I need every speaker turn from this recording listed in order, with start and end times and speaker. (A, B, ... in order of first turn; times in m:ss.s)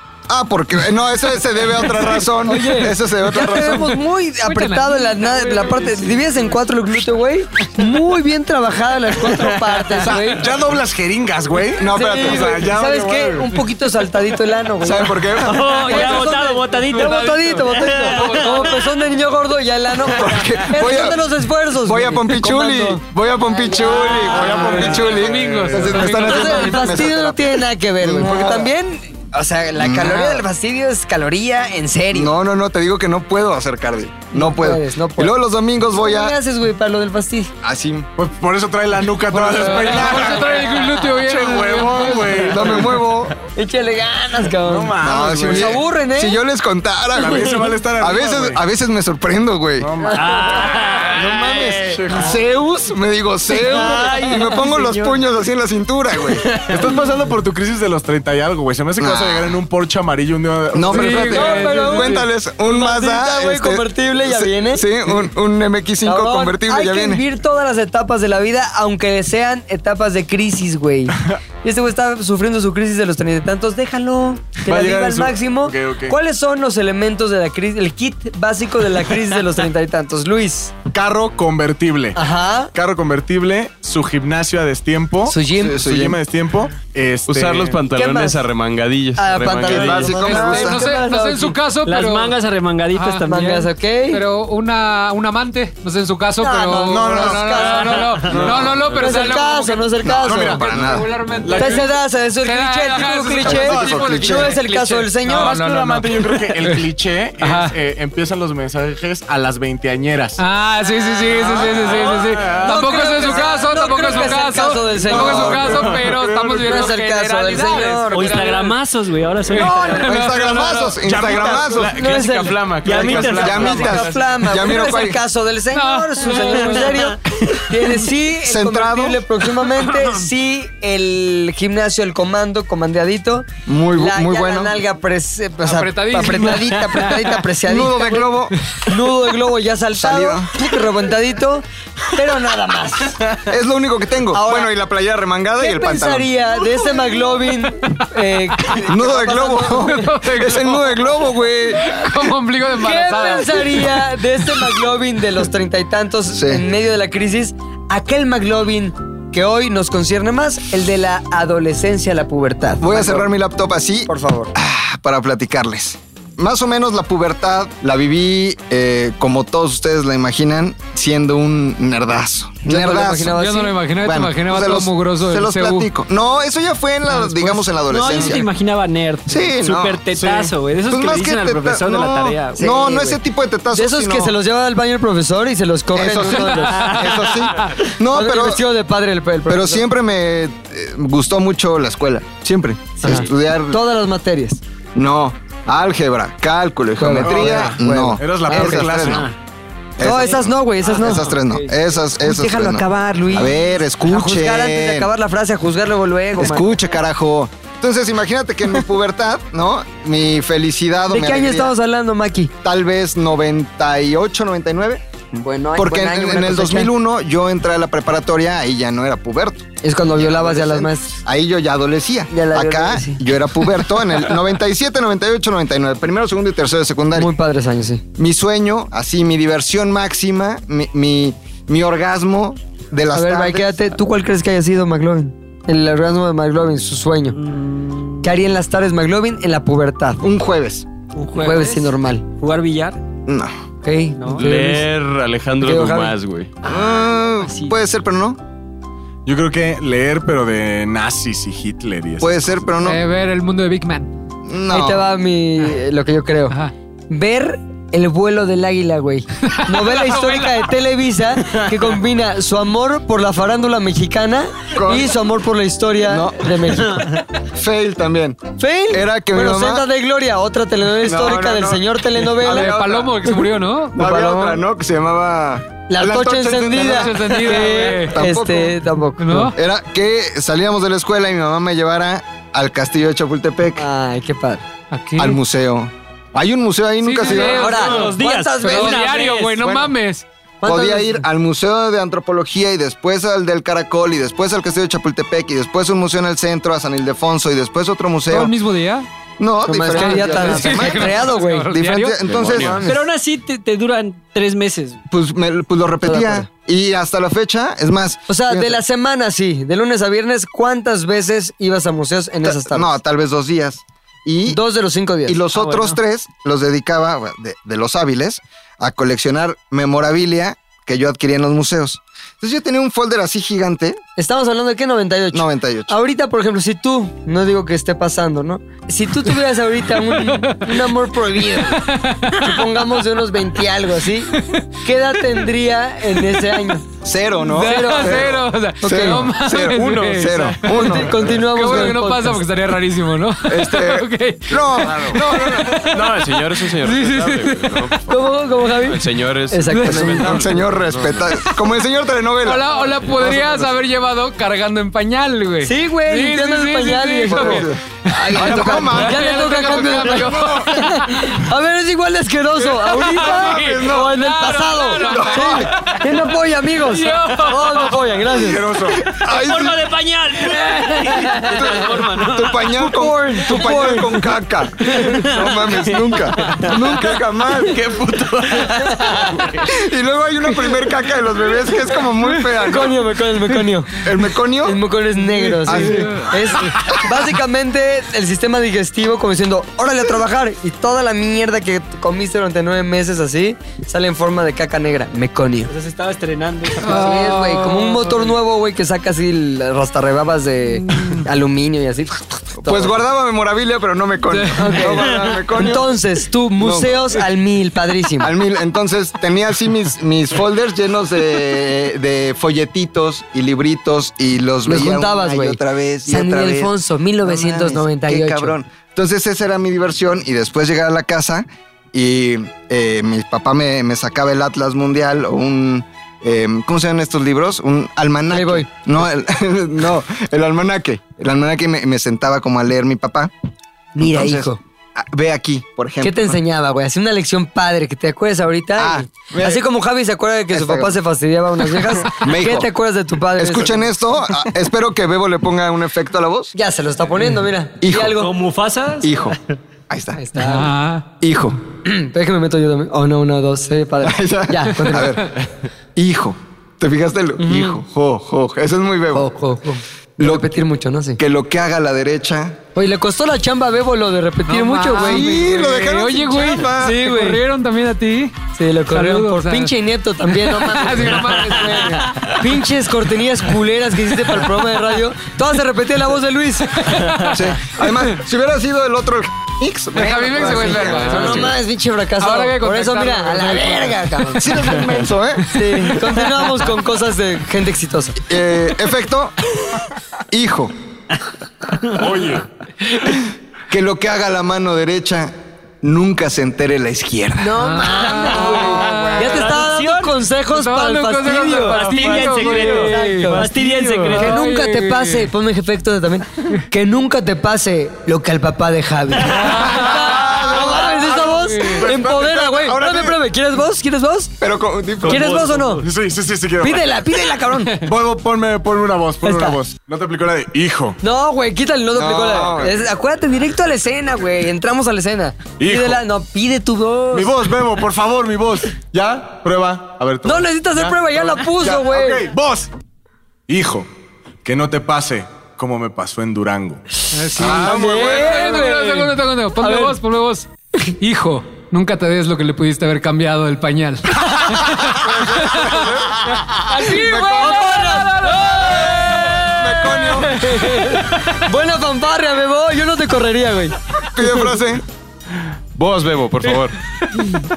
0:00.3-0:04.0 A
0:02.2-0:10.4 B
0:04.4-0:06.5 C
0:10.0-0:13.6 D
0:11.8-0:12.6 A
0:11.8-0:25.2 B
0:14.8-0:15.8 A
0:15.4-0:18.8 E
0:15.8-0:18.9 C
0:20.0-0:28.7 A
0:24.4-0:27.1 C
0:24.8-0:26.3 D
0:26.0-0:32.3 B
0:29.8-0:30.5 A
0:32.1-0:36.4 A
0:34.3-0:35.4 B
0:35.9-0:37.5 B
0:37.6-0:38.1 A
0:38.2-0:43.0 D
0:39.3-0:42.4 C
0:42.4-0:43.4 A
0:43.6-0:46.4 B
0:44.6-0:45.8 D
0:45.0-0:49.9 A
0:47.1-0:48.6 D
0:49.8-0:50.6 D
0:50.0-0:50.8 B
0:50.2-0:51.2 E
0:50.9-0:56.6 A
0:51.6-0:52.4 D
0:53.5-0:55.0 B
0:53.9-0:54.9 E
0:56.6-1:01.7 D
0:59.0-0:59.6 A
1:00.7-1:07.2 A
1:00.9-1:02.3 C
1:01.2-1:04.9 B
1:06.0-1:20.7 B
1:14.6-1:16.2 D
1:20.9-1:22.2 D
1:22.2-1:22.7 B
1:22.7-1:27.8 D
1:25.3-1:25.9 B
1:25.6-1:26.2 A
1:27.3-1:30.4 F
1:27.9-1:28.5 B
1:29.2-1:31.6 B
1:29.6-1:30.8 A
1:30.3-1:32.4 C
1:31.8-1:33.6 E
1:32.9-1:46.8 C
1:33.3-1:34.2 B
1:36.4-1:40.7 B
1:36.8-1:39.3 D
1:40.0-1:41.2 A
1:40.2-1:42.0 D
1:41.5-1:45.6 B
1:43.3-1:44.3 D
1:43.4-1:44.6 A
1:45.2-1:50.4 D
1:47.4-1:47.8 C
1:50.4-1:58.7 C
1:51.3-1:53.4 D
1:51.8-1:55.9 B
1:55.0-1:56.9 D
1:55.1-1:55.8 A
1:56.6-1:58.7 B
1:58.1-2:00.1 E
1:59.5-2:01.0 C
1:59.5-2:00.3 B
2:00.0-2:02.0 A
2:00.6-2:02.2 D
2:01.4-2:04.2 F
2:01.9-2:23.3 B
2:02.9-2:04.1 D
2:02.9-2:04.0 E
2:03.3-2:05.2 A
2:05.7-2:07.1 C
2:06.4-2:07.0 E
2:08.4-2:09.2 A
2:13.7-2:14.8 A
2:15.6-2:17.2 C
2:17.6-2:18.6 A
2:20.0-2:20.5 A
2:23.5-2:26.3 A
2:24.3-2:24.7 B
2:25.6-2:30.0 B
2:28.8-2:32.3 A
2:29.7-2:31.1 C
2:31.8-2:34.1 C
2:32.8-2:43.3 B
2:36.3-2:36.6 A
2:42.8-2:53.4 A
2:44.1-2:44.5 B
2:52.6-2:53.8 B
2:53.3-2:55.9 C
2:54.0-2:58.5 A
2:57.1-2:58.2 C
2:57.9-3:02.7 E
2:59.3-3:00.1 A
3:00.1-3:00.5 D
3:00.9-3:04.4 A
3:02.6-3:03.2 B
3:03.7-3:07.0 B
3:05.9-3:08.7 A
3:06.8-3:07.2 E
3:07.4-3:07.7 C
3:08.1-3:09.9 B
3:09.5-3:13.8 A
3:13.0-3:14.6 B
3:15.0-3:19.3 A
3:17.0-3:19.3 B
3:17.2-3:19.3 D
3:19.0-3:19.3 E
3:20.0-3:25.1 A
3:20.0-3:21.3 B
3:21.0-3:21.7 E
3:22.2-3:26.8 B
3:26.4-3:31.7 A
3:31.1-3:32.5 B
3:32.6-3:35.0 A
3:35.4-3:36.9 B
3:35.8-3:47.3 A
3:39.8-3:41.2 B
3:42.3-3:43.2 B
3:47.2-3:48.0 B
3:48.2-3:53.7 A
3:53.1-3:57.4 B
3:57.4-3:58.2 E
3:58.2-4:00.2 B
4:00.2-4:00.9 A
4:01.2-4:03.0 E
4:01.4-4:02.2 B
4:03.3-4:03.6 A
4:03.8-4:04.9 B
4:04.2-4:04.5 E
4:04.4-4:06.6 F
4:05.6-4:06.2 B
4:06.6-4:08.4 A
4:06.6-4:07.8 E
4:09.3-4:12.5 D
4:12.2-4:13.0 A
4:12.8-4:14.1 C
4:14.5-4:15.1 A
4:14.7-4:16.6 B
4:17.1-4:27.2 B
4:19.5-4:20.7 C
4:24.7-4:25.2 A
4:26.0-4:26.7 A
4:27.5-4:29.9 A
4:28.6-4:32.7 B
4:31.0-4:37.3 A
4:32.3-4:34.0 C
4:34.0-4:34.6 B
4:35.9-4:39.5 B
4:36.7-4:38.2 C
4:38.1-4:38.8 A
4:39.2-4:39.6 C
4:39.5-4:43.8 A
4:43.8-4:44.6 B
4:44.9-4:45.4 C
4:45.2-4:48.0 A
4:47.0-4:50.2 C
4:47.3-4:49.6 E
4:47.4-4:49.9 B
4:50.6-4:51.2 B
4:50.6-4:58.6 A
4:58.3-4:59.1 C
4:59.4-5:01.1 A
4:59.7-5:01.7 B
4:59.9-5:02.2 C
5:01.7-5:02.8 A
5:02.2-5:02.8 F
5:02.4-5:03.0 B
5:02.8-5:05.0 E
5:05.1-5:08.8 A
5:06.0-5:06.5 B
5:08.3-5:13.0 B
5:12.4-5:14.6 A
5:14.5-5:15.4 B
5:15.3-5:24.0 A
5:15.6-5:16.0 E
5:24.2-5:36.9 B
5:25.3-5:26.0 A
5:30.2-5:30.9 C
5:31.6-5:32.6 C
5:34.3-5:34.6 C
5:37.0-5:41.8 A
5:37.5-5:47.9 C
5:37.5-5:39.3 B
5:40.7-5:42.5 B
5:43.5-5:45.7 A
5:44.7-5:45.3 D
5:45.8-5:51.4 F
5:48.1-5:50.5 B
5:49.7-5:50.4 C
5:49.9-5:53.6 A
5:52.4-5:57.7 C
5:55.6-6:08.7 B
5:57.3-6:00.8 A
5:58.2-6:01.3 C
6:02.7-6:06.2 C
6:03.1-6:04.2 A
6:05.0-6:05.7 A
6:06.8-6:08.0 C
6:08.3-6:09.1 D
6:08.8-6:09.8 A
6:09.1-6:12.7 E
6:11.4-6:18.0 A
6:12.7-6:14.3 B
6:14.8-6:15.2 B
6:15.3-6:16.8 E
6:18.4-6:19.6 E
6:18.9-6:19.4 B
6:19.6-6:23.0 A
6:22.5-6:24.0 B
6:24.0-6:24.8 A
6:24.6-6:35.7 B
6:25.3-6:26.4 C
6:25.6-6:27.0 A
6:35.7-6:37.2 E
6:36.8-6:38.4 C
6:36.8-6:43.0 B
6:41.0-6:41.2 C
6:42.6-6:45.9 A
6:44.3-6:44.7 C
6:44.5-6:48.3 B
6:46.6-6:47.2 A
6:48.2-7:13.3 A
6:54.6-6:58.6 B
7:08.3-7:08.7 B
7:14.0-7:14.6 B
7:14.0-7:16.4 A
7:16.0-7:23.9 B
7:18.8-7:19.6 A
7:20.5-7:21.0 A
7:22.1-7:22.7 A
7:23.4-7:26.5 A
7:26.6-7:28.3 B
7:27.8-7:28.2 A
7:28.1-7:29.4 E
7:29.0-7:29.4 A
7:29.9-7:30.2 A
7:30.2-7:30.8 B
7:30.4-7:31.0 C
7:31.2-7:31.6 A
7:31.8-7:35.3 B
7:34.0-7:35.4 A
7:36.0-7:39.3 A
7:37.4-7:37.8 B
7:39.1-7:41.2 B
7:40.2-7:40.5 A
7:41.2-7:42.6 A
7:42.8-7:45.4 B
7:44.5-7:48.4 C
7:45.0-7:47.0 A
7:46.7-7:47.4 B
7:48.6-7:57.2 B
7:48.9-7:49.7 C
7:50.3-7:52.4 C
7:56.9-7:57.4 C
7:57.3-8:01.5 A
8:00.0-8:01.6 C
8:00.4-8:04.6 B
8:02.2-8:04.5 C
8:04.3-8:05.5 A
8:05.5-8:08.2 B
8:08.2-8:09.4 A
8:10.3-8:10.7 A
8:11.9-8:12.5 D
8:13.7-8:17.6 A
8:17.4-8:34.3 B
8:17.6-8:19.6 C
8:18.4-8:20.2 E
8:20.5-8:25.3 C
8:21.6-8:24.4 E
8:29.4-8:30.3 C
8:29.7-8:30.8 A
8:30.4-8:33.1 D
8:31.0-8:31.9 C
8:32.8-8:33.1 A
8:34.4-8:35.4 A
8:35.0-8:41.0 D
8:35.0-8:35.8 B
8:35.4-8:35.8 E
8:36.6-8:37.8 B
8:39.2-8:39.6 B
8:41.0-8:47.3 B
8:41.9-8:42.8 A
8:45.6-8:46.0 D
8:47.1-8:52.7 D
8:50.2-8:52.3 B
8:53.5-8:53.9 D
8:54.4-8:56.8 D
8:57.1-9:00.5 C
8:57.3-9:00.0 B
8:57.4-8:58.5 D
9:01.0-9:11.0 C
9:05.0-9:07.7 A
9:06.7-9:13.8 B
9:08.5-9:10.4 A
9:14.1-9:14.8 A
9:15.8-9:16.8 F